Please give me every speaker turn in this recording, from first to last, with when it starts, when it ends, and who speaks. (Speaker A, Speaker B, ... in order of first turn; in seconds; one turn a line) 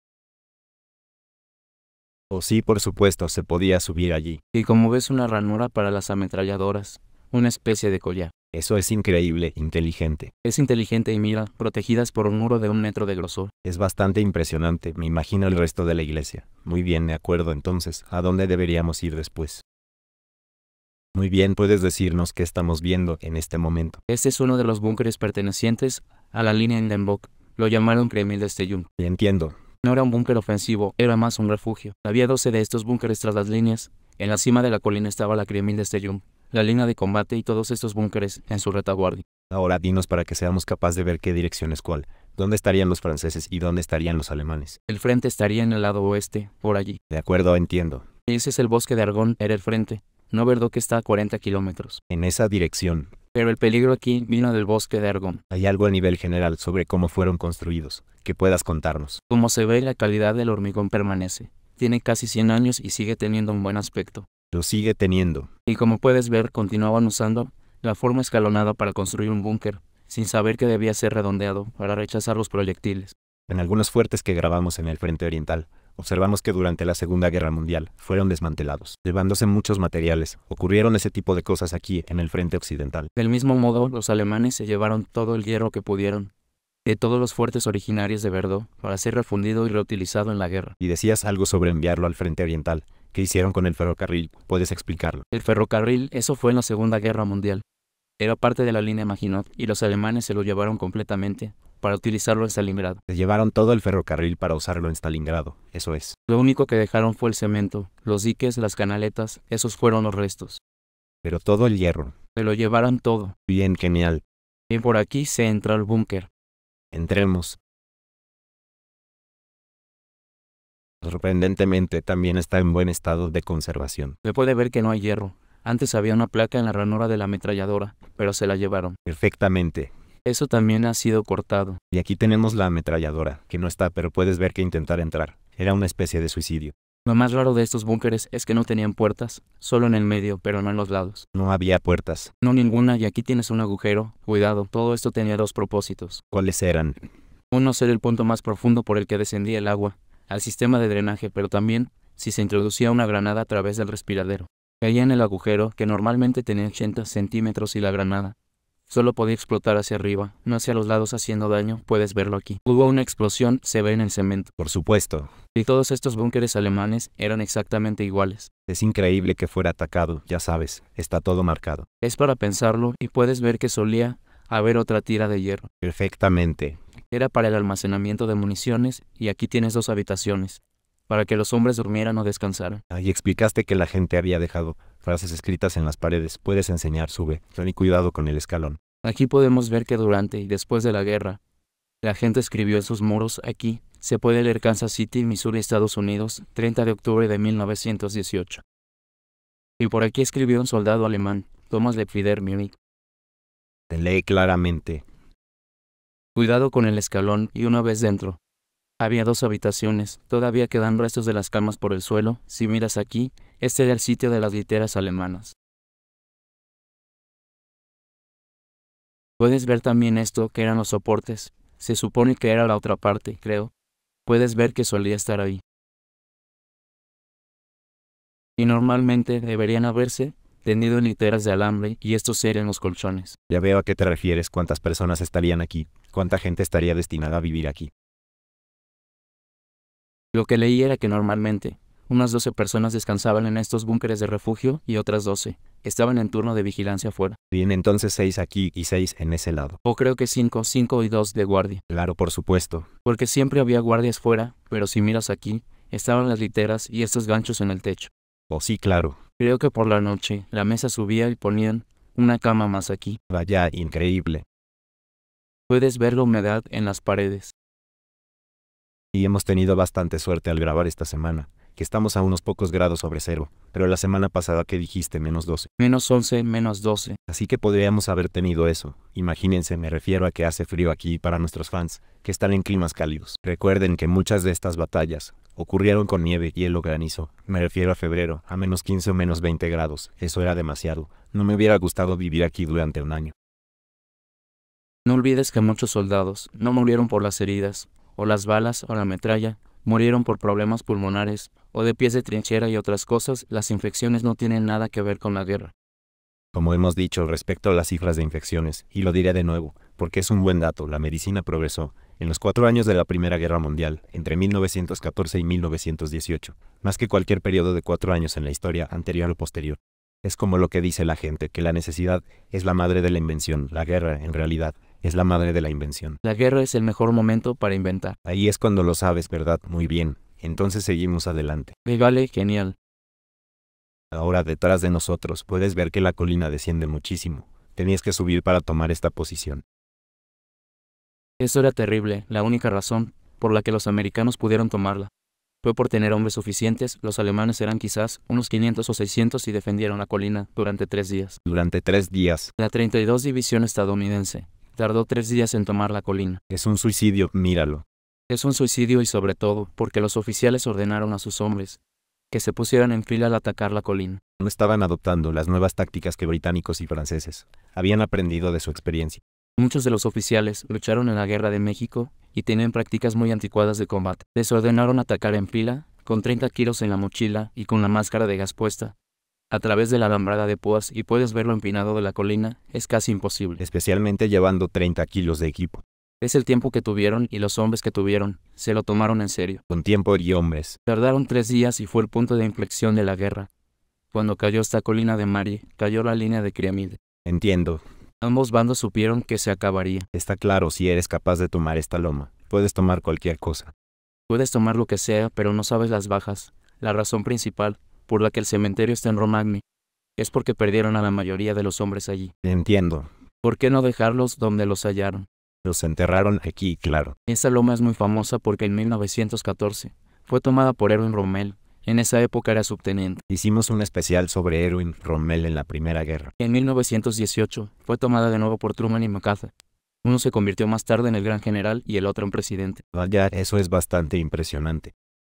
Speaker A: 2.3-4.4
Speaker B: 4.5-8.3
Speaker A: 8.5-10.3
Speaker B: 10.4-13.5
Speaker A: 13.6-19.6
Speaker A: 21.1-24.0
Speaker B: 24.1-28.9
Speaker A: 29.0-29.6
Speaker B: 29.8-39.2
Speaker A: 39.5-44.8
Speaker B: 44.9-47.0
Speaker A: 47.1-48.1
Speaker B: 48.2-52.0
Speaker A: 52.1-53.1
Speaker B: 53.3-55.4
Speaker A: 55.5-59.2
Speaker B: 59.3-64.3
Speaker A: 64.5-65.5
Speaker B: 65.7-73.1
Speaker A: 73.5-83.1
Speaker B: 83.2-86.3
Speaker B: 86.8-90.7
Speaker A: 90.8-95.2
Speaker B: 95.3-97.6
Speaker B: 98.2-103.0
Speaker A: 103.1-106.1
Speaker B: 106.3-110.6
Speaker A: 111.2-112.1
Speaker B: 112.3-113.3
Speaker A: 113.5-114.2
Speaker B: 114.7-116.3
Speaker A: 116.9-117.6
Speaker A: 121.0-124.2
Speaker B: 124.2-129.0
Speaker A: 129.1-129.9
Speaker B: 130.2-131.8
Speaker A: 131.9-136.7
Speaker B: 137.1-141.2
Speaker A: 141.3-142.3
Speaker B: 142.4-146.2
Speaker A: 146.3-147.0
Speaker B: 147.5-158.3
Speaker B: 158.9-164.5
Speaker A: 164.6-165.3
Speaker B: 165.5-168.5
Speaker A: 168.7-171.9
Speaker B: 172.0-175.7
Speaker A: 175.8-176.8
Speaker B: 177.1-182.8
Speaker A: 182.9-188.8
Speaker B: 189.0-191.4
Speaker B: 192.0-198.6
Speaker B: 199.8-202.7
Speaker A: 203.9-205.0
Speaker B: 206.3-208.4
Speaker B: 209.0-215.5
Speaker B: 219.4-223.7
Speaker B: 224.2-225.6
Speaker B: 228.6-233.3
Speaker A: 233.5-237.9
Speaker B: 240.3-247.4
Speaker A: 247.5-249.8
Speaker B: 249.8-251.8
Speaker A: 251.9-252.9
Speaker B: 253.0-258.1
Speaker A: 258.5-259.2
Speaker B: 259.4-263.2
Speaker A: 263.3-264.4
Speaker B: 265.7-267.5
Speaker A: 269.1-275.7
Speaker B: 275.8-277.2
Speaker A: 277.3-293.3
Speaker B: 295.1-305.7
Speaker A: 306.5-326.2
Speaker B: 326.2-328.1
Speaker A: 328.2-331.7
Speaker B: 331.8-332.7
Speaker A: 334.1-339.6
Speaker B: 341.4-345.1
Speaker B: 345.6-351.4
Speaker A: 351.4-352.5
Speaker B: 352.6-356.4
Speaker A: 356.5-357.8
Speaker B: 358.3-361.8
Speaker B: 362.3-364.2
Speaker A: 364.4-369.2
Speaker B: 369.6-378.9
Speaker B: 379.5-383.6
Speaker A: 383.6-385.8
Speaker B: 386.2-389.6
Speaker A: 389.7-390.8
Speaker B: 390.9-393.5
Speaker B: 394.1-397.0
Speaker A: 397.2-397.8
Speaker B: 398.2-400.1
Speaker A: 400.1-403.7
Speaker B: 404.3-409.6
Speaker B: 410.2-412.3
Speaker A: 412.4-413.1
Speaker B: 413.4-415.2
Speaker A: 415.6-417.1
Speaker B: 417.3-423.2
Speaker A: 423.3-426.3
Speaker B: 426.4-429.5
Speaker B: 430.0-432.8
Speaker A: 432.9-434.9